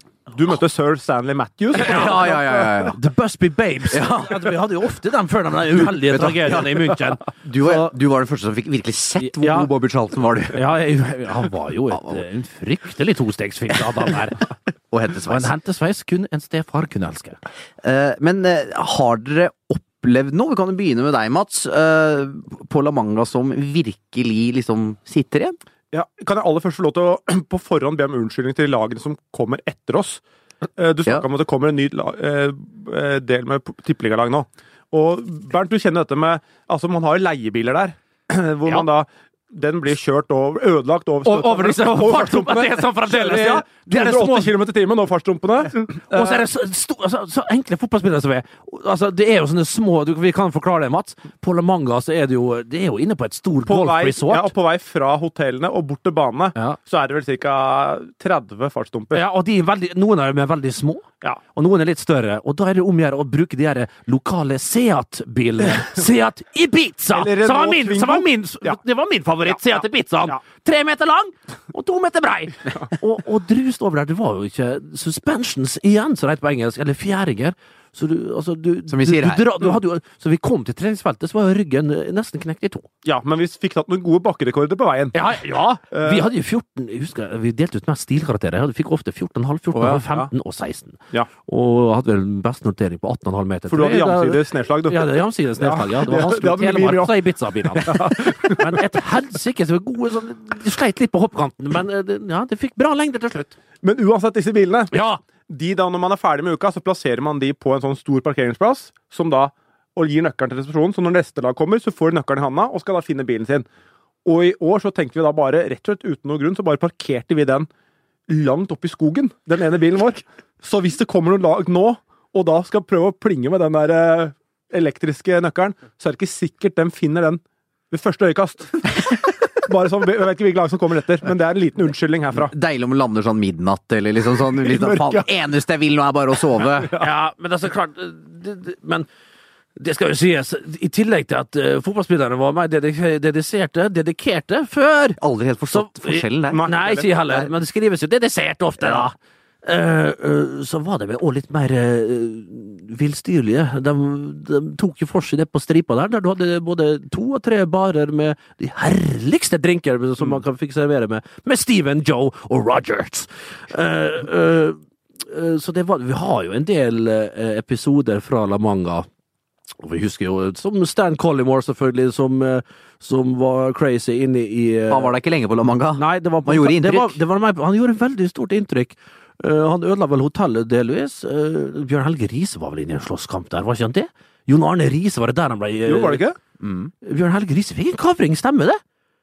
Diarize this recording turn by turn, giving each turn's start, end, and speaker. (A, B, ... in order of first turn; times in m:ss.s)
0:00.3-0:02.5 A
0:01.7-0:03.0 B
0:01.8-0:07.9 C
0:03.9-0:04.6 B
0:05.8-0:10.6 B
0:09.2-0:09.7 C
0:10.5-0:14.4 C
0:11.9-0:12.2 B
0:14.9-0:15.5 B
0:15.3-0:17.4 C
0:17.8-0:25.6 B
0:25.9-0:30.2 A
0:30.8-0:46.4 A
0:41.2-0:44.5 C
0:46.0-0:54.5 C
0:53.7-0:59.2 A
0:59.1-1:22.9 C
1:07.1-1:08.8 A
1:18.9-1:19.4 B
1:23.0-1:25.3 A
1:25.1-1:43.5 C
1:25.9-1:26.3 A
1:29.7-1:30.3 A
1:33.7-1:37.2 A
1:37.7-1:38.8 A
1:43.8-1:44.9 A
1:44.9-1:45.2 C
1:45.5-1:53.6 A
1:54.2-1:57.7 A
1:58.3-2:09.0 A
2:09.6-2:12.5 A
2:12.3-2:16.9 B
2:14.6-2:15.3 A
2:17.0-2:19.0 C
2:19.8-2:25.2 C
2:25.2-2:26.7 B
2:25.7-2:49.1 C
2:26.5-2:27.1 A
2:49.8-2:55.1 C
2:54.9-2:57.2 B
2:56.0-3:06.2 C
3:05.8-3:06.4 A
3:06.6-3:06.9 B
3:07.0-3:08.8 C